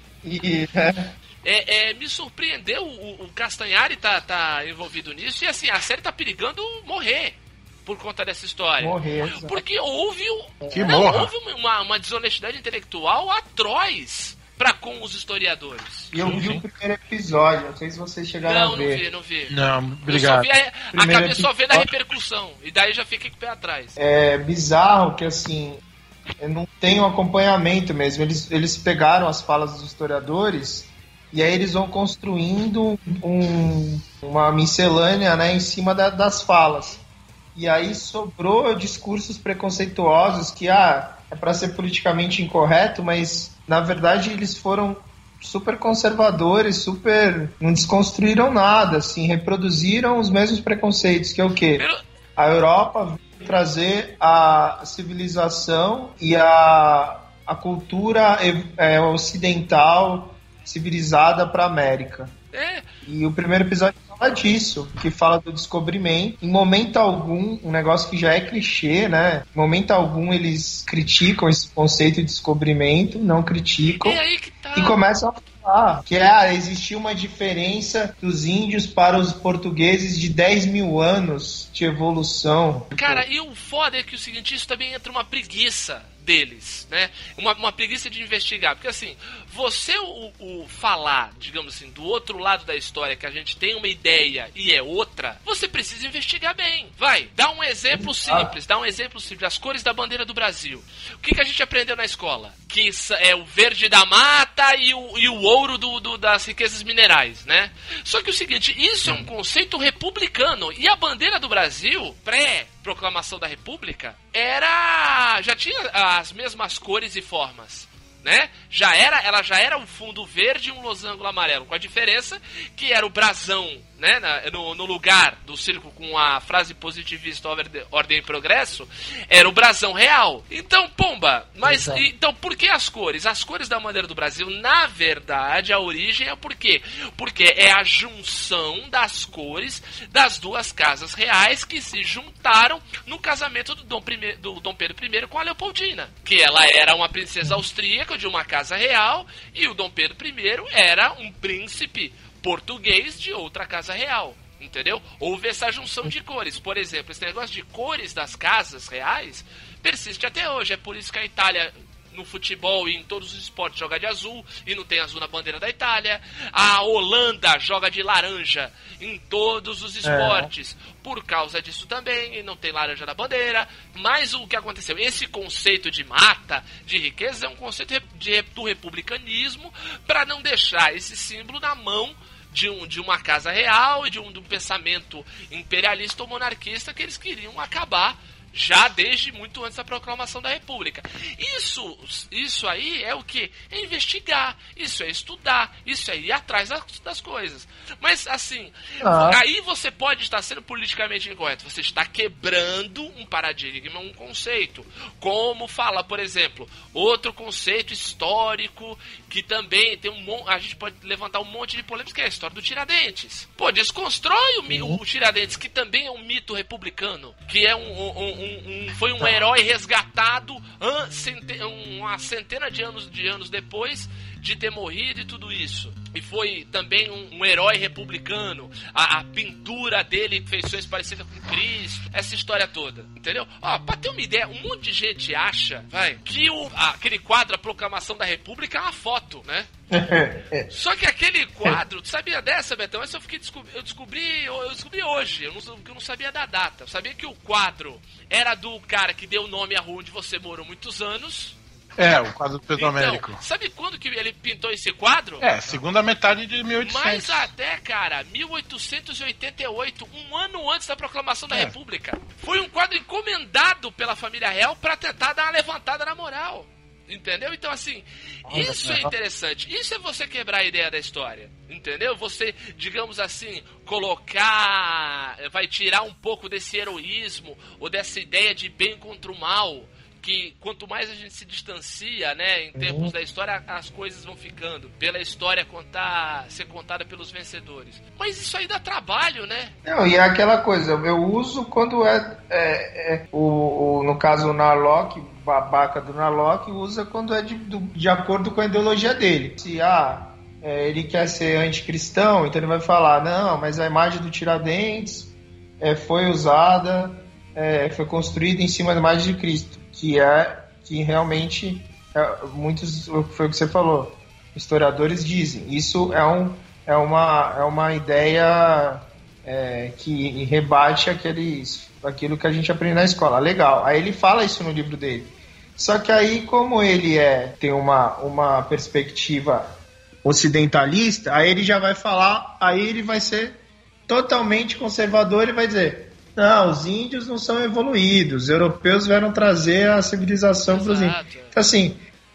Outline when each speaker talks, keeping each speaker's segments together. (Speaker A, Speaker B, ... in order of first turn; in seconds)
Speaker A: 0.2-1.1, 8.8-9.6, 10.6-10.9, 16.1-19.0, 20.9-21.9, 24.0-25.8, 26.4-37.0, 37.6-51.9, 52.4-62.3, 63.0-74.2, 74.8-83.2, 97.9-98.5, 109.1-109.3, 131.6-132.1, 170.0-170.5, 199.0-199.4, 214.7-215.0, 239.9-240.7, 268.5-269.1, 282.8-283.1, 289.9-342.0
Speaker B: 1.4-16.1, 18.4-19.5, 20.1-24.0, 51.8-52.0, 62.5-62.9, 74.0-75.0, 83.0-239.7, 240.7-251.6, 252.8-255.5, 256.8-289.7, 340.7-341.6
Speaker C: 10.7-11.3, 16.1-16.6, 19.5-20.6, 252.0-253.4, 255.4-257.5, 268.6-269.0